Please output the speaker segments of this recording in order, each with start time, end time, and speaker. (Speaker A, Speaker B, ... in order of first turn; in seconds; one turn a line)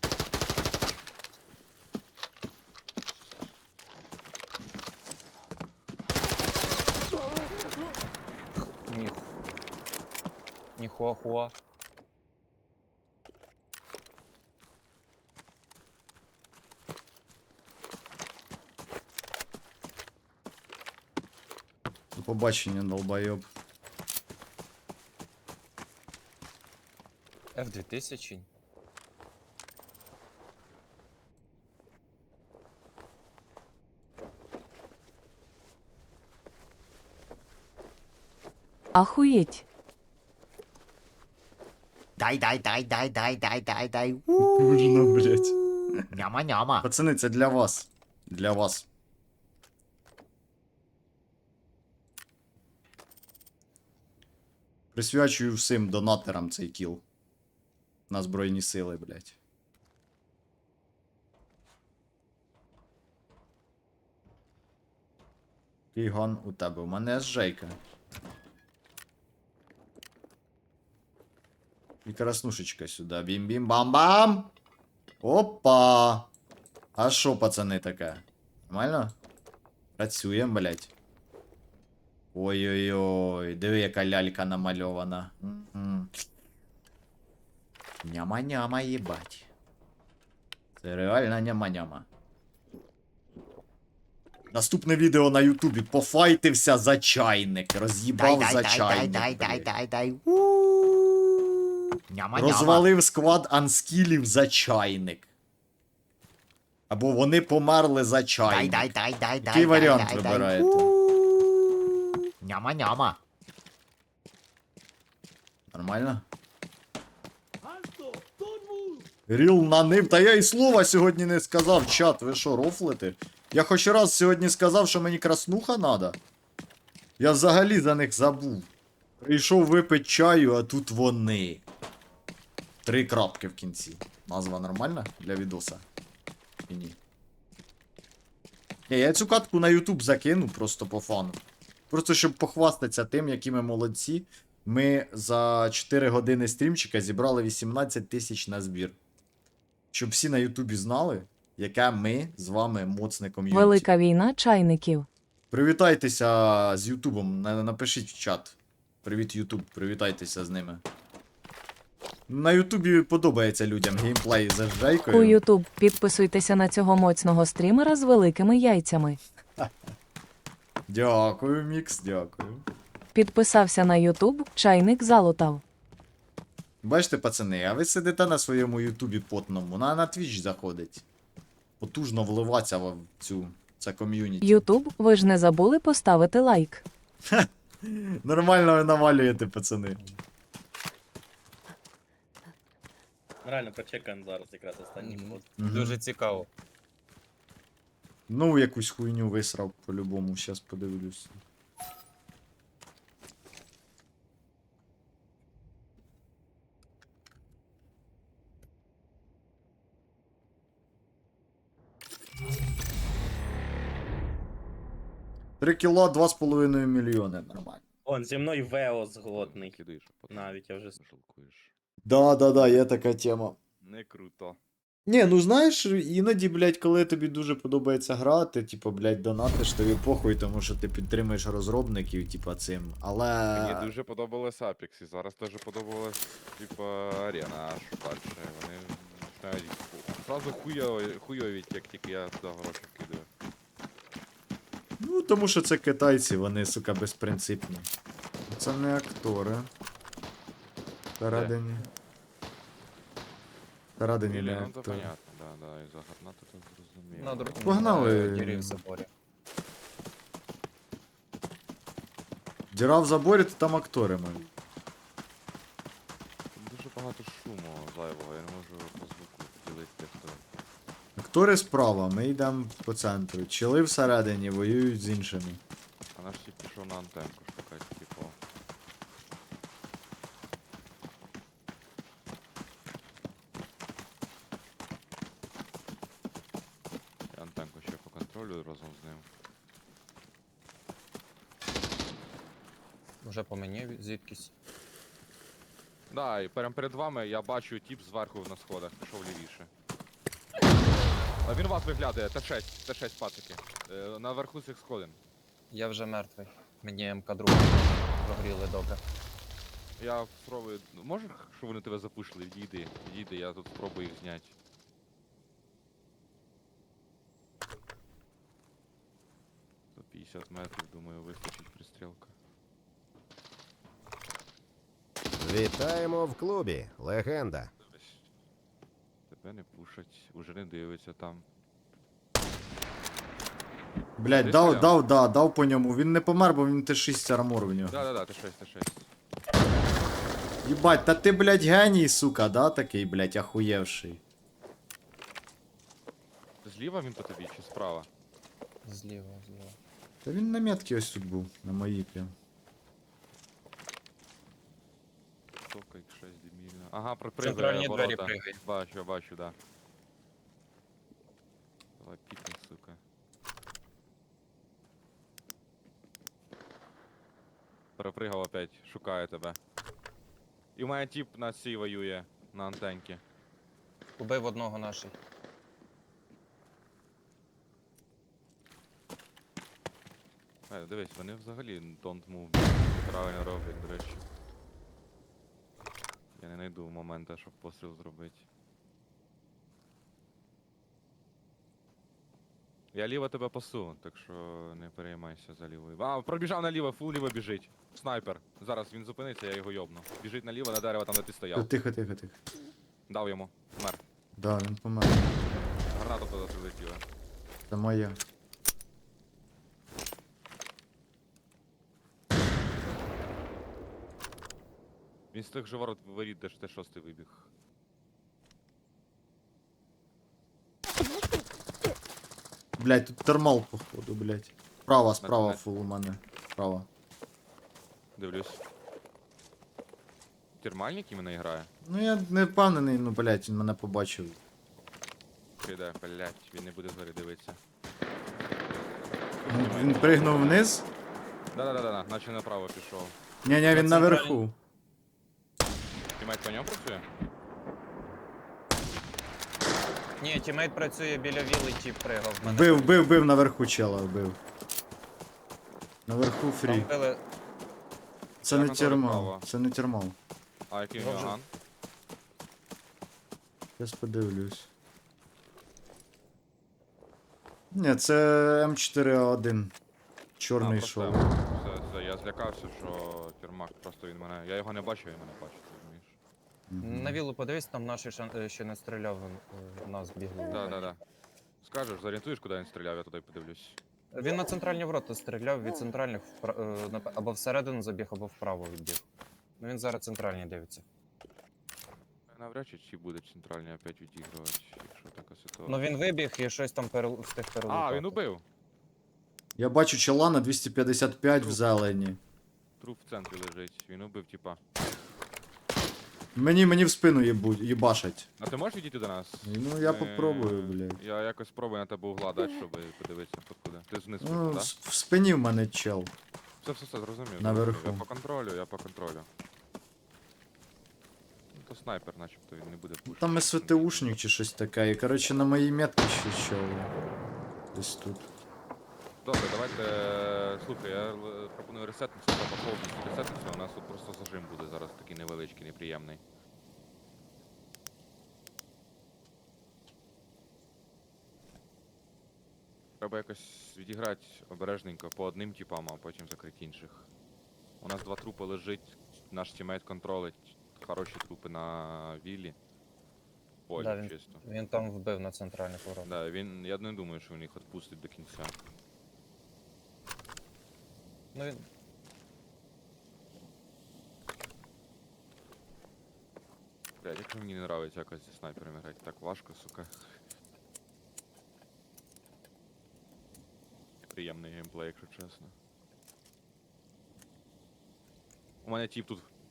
Speaker A: 8.8-9.3
Speaker A: 10.8-11.6
Speaker B: 22.2-23.5
Speaker A: 27.6-28.5
Speaker C: 39.0-39.6
Speaker D: 42.2-46.9
Speaker B: 44.4-46.1
Speaker B: 46.8-48.9
Speaker B: 55.0-57.0
Speaker B: 58.1-59.4
Speaker B: 65.9-67.8
Speaker B: 72.0-74.5
Speaker B: 75.2-76.3
Speaker B: 77.0-79.2
Speaker B: 80.0-80.9
Speaker B: 82.3-86.1
Speaker B: 88.0-89.5
Speaker B: 90.8-92.1
Speaker B: 94.5-99.7
Speaker D: 98.2-100.2
Speaker B: 100.3-101.2
Speaker D: 102.1-102.9
Speaker B: 102.3-105.3
Speaker B: 106.9-110.9
Speaker D: 108.5-111.9
Speaker D: 112.4-113.2
Speaker B: 115.7-116.3
Speaker B: 119.3-126.2
Speaker B: 127.2-128.7
Speaker B: 129.2-131.6
Speaker B: 132.8-135.8
Speaker B: 136.7-137.0
Speaker B: 138.9-149.0
Speaker B: 149.9-153.9
Speaker C: 153.5-155.1
Speaker B: 155.5-160.8
Speaker B: 162.3-165.4
Speaker C: 165.1-169.2
Speaker B: 170.9-172.7
Speaker C: 173.2-175.6
Speaker B: 176.8-181.0
Speaker B: 181.8-184.7
Speaker C: 184.4-186.8
Speaker B: 187.3-190.0
Speaker E: 193.4-195.5
Speaker A: 195.0-196.5
Speaker B: 195.6-196.0
Speaker B: 198.3-201.4
Speaker B: 215.6-217.8
Speaker E: 218.1-219.8
Speaker F: 219.3-221.7
Speaker E: 220.3-220.9
Speaker B: 222.1-223.6
Speaker F: 223.8-224.6
Speaker B: 225.1-233.9
Speaker F: 233.5-243.3
Speaker B: 245.0-247.9
Speaker B: 248.5-249.7
Speaker B: 251.2-251.8
Speaker F: 251.3-251.6
Speaker B: 254.0-255.1
Speaker F: 254.3-258.1
Speaker A: 257.1-259.1
Speaker B: 257.6-258.8
Speaker B: 262.7-264.5
Speaker F: 266.6-270.4
Speaker B: 271.2-275.6
Speaker F: 276.1-278.4
Speaker F: 287.3-289.3
Speaker A: 293.2-294.5
Speaker F: 296.1-299.7
Speaker F: 301.4-305.2
Speaker A: 305.7-309.0
Speaker F: 310.0-314.6
Speaker F: 319.9-322.4
Speaker G: 325.4-327.7
Speaker F: 327.8-328.2
Speaker F: 329.3-331.5
Speaker B: 334.2-338.0
Speaker F: 334.3-335.0
Speaker F: 337.9-339.1
Speaker B: 340.6-344.2
Speaker F: 346.6-348.1
Speaker A: 348.9-349.8
Speaker B: 350.2-352.4
Speaker F: 355.7-359.6
Speaker A: 357.4-358.6
Speaker F: 362.0-363.0
Speaker F: 368.0-369.6
Speaker F: 370.8-373.2
Speaker A: 374.2-375.2
Speaker F: 380.7-384.3
Speaker F: 386.4-388.5
Speaker F: 392.9-401.7
Speaker B: 401.6-402.4
Speaker F: 403.1-404.0
Speaker B: 404.4-405.4
Speaker F: 405.6-407.0
Speaker B: 407.7-408.2
Speaker F: 415.3-417.5
Speaker B: 422.8-426.9
Speaker F: 425.2-425.6
Speaker F: 428.2-428.6
Speaker F: 430.6-431.7
Speaker B: 431.9-434.4
Speaker F: 435.6-437.6
Speaker F: 439.4-440.7
Speaker B: 439.5-440.9
Speaker F: 441.5-443.2
Speaker B: 443.4-444.6
Speaker A: 443.7-444.4
Speaker F: 446.2-447.1
Speaker A: 450.2-453.1
Speaker B: 452.4-454.4
Speaker B: 456.1-456.9
Speaker A: 456.6-457.2
Speaker B: 458.4-460.2
Speaker F: 458.4-459.5
Speaker F: 460.7-461.5
Speaker A: 461.0-461.4
Speaker B: 463.8-464.7
Speaker B: 467.7-469.7
Speaker B: 470.4-471.3
Speaker F: 470.6-476.2
Speaker B: 476.7-477.2
Speaker A: 476.8-480.9
Speaker F: 480.5-481.0
Speaker F: 481.6-483.8
Speaker A: 484.1-489.0
Speaker A: 489.6-490.9
Speaker F: 492.3-495.8
Speaker A: 495.7-498.2
Speaker F: 497.7-498.4
Speaker B: 499.6-502.2
Speaker F: 502.8-504.6
Speaker B: 506.4-508.3
Speaker F: 508.4-514.7
Speaker B: 509.4-511.0
Speaker B: 514.2-516.1
Speaker F: 516.6-519.3
Speaker B: 517.4-518.0
Speaker F: 521.5-524.1
Speaker B: 523.1-526.9
Speaker B: 527.7-528.3
Speaker F: 529.2-536.2
Speaker F: 543.0-547.1
Speaker F: 547.8-552.6
Speaker F: 553.7-554.4
Speaker A: 553.8-556.1
Speaker F: 556.0-558.5
Speaker A: 561.3-561.6
Speaker F: 567.0-570.2
Speaker F: 574.0-575.5
Speaker F: 578.6-579.3